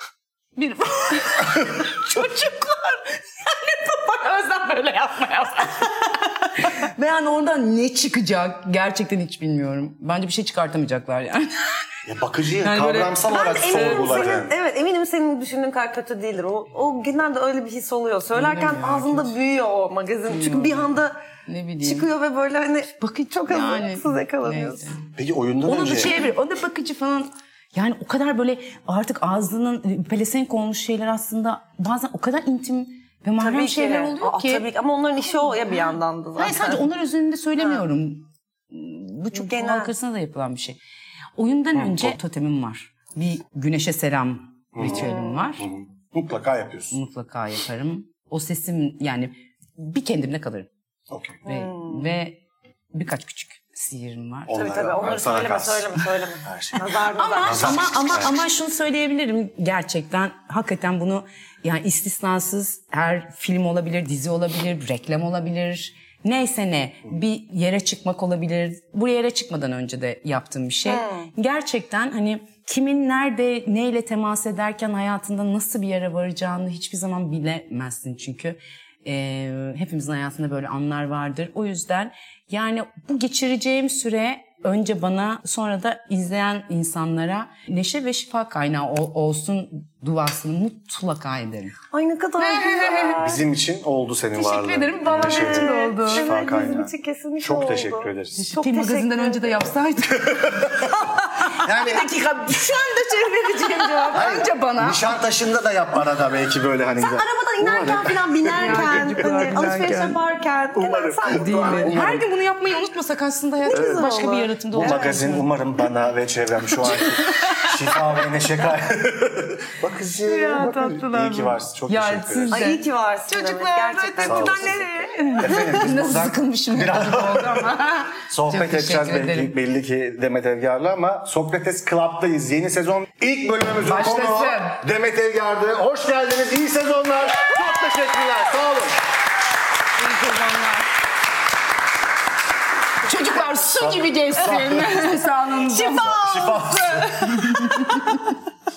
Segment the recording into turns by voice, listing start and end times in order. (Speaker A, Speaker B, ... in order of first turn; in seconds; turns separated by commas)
Speaker A: 0.6-12.0, Speaker B: 12.1-14.6, Speaker A: 12.6-14.4, Speaker C: 13.3-21.2, Speaker A: 18.3-19.3, Speaker A: 20.3-22.1, Speaker C: 21.8-24.9, Speaker A: 23.0-25.1, Speaker B: 25.2-26.2, Speaker A: 25.6-34.7, Speaker C: 33.4-36.9, Speaker A: 35.3-40.8, Speaker C: 39.3-39.9, Speaker A: 41.4-45.7, Speaker B: 41.8-42.2, Speaker B: 44.7-47.0, Speaker C: 44.8-45.5, Speaker A: 46.9-50.7, Speaker B: 51.1-51.4, Speaker A: 51.5-52.4, Speaker C: 51.5-52.1, Speaker A: 52.9-54.7, Speaker B: 54.5-56.8, Speaker C: 54.5-58.4, Speaker A: 57.1-91.8, Speaker B: 57.4-58.4, Speaker C: 70.9-71.3, Speaker C: 91.9-93.4, Speaker A: 92.4-93.2, Speaker B: 93.1-98.4, Speaker A: 94.3-96.3, Speaker C: 95.1-99.7, Speaker A: 98.4-105.2, Speaker B: 100.3-100.9, Speaker C: 100.8-101.3, Speaker B: 101.6-102.1, Speaker B: 104.1-109.3, Speaker C: 107.0-112.0, Speaker A: 108.5-110.2, Speaker B: 110.8-112.3, Speaker A: 111.3-115.5, Speaker C: 113.7-115.2, Speaker B: 113.7-114.1, Speaker B: 114.8-122.7, Speaker A: 116.8-118.0, Speaker A: 120.3-129.5, Speaker C: 120.4-120.8, Speaker C: 122.5-125.7, Speaker B: 124.2-124.8, Speaker B: 125.4-139.0, Speaker A: 133.8-134.8, Speaker A: 140.0-140.9, Speaker A: 143.0-146.2, Speaker B: 143.4-145.1, Speaker C: 145.6-148.2, Speaker B: 146.0-147.5, Speaker A: 147.3-148.2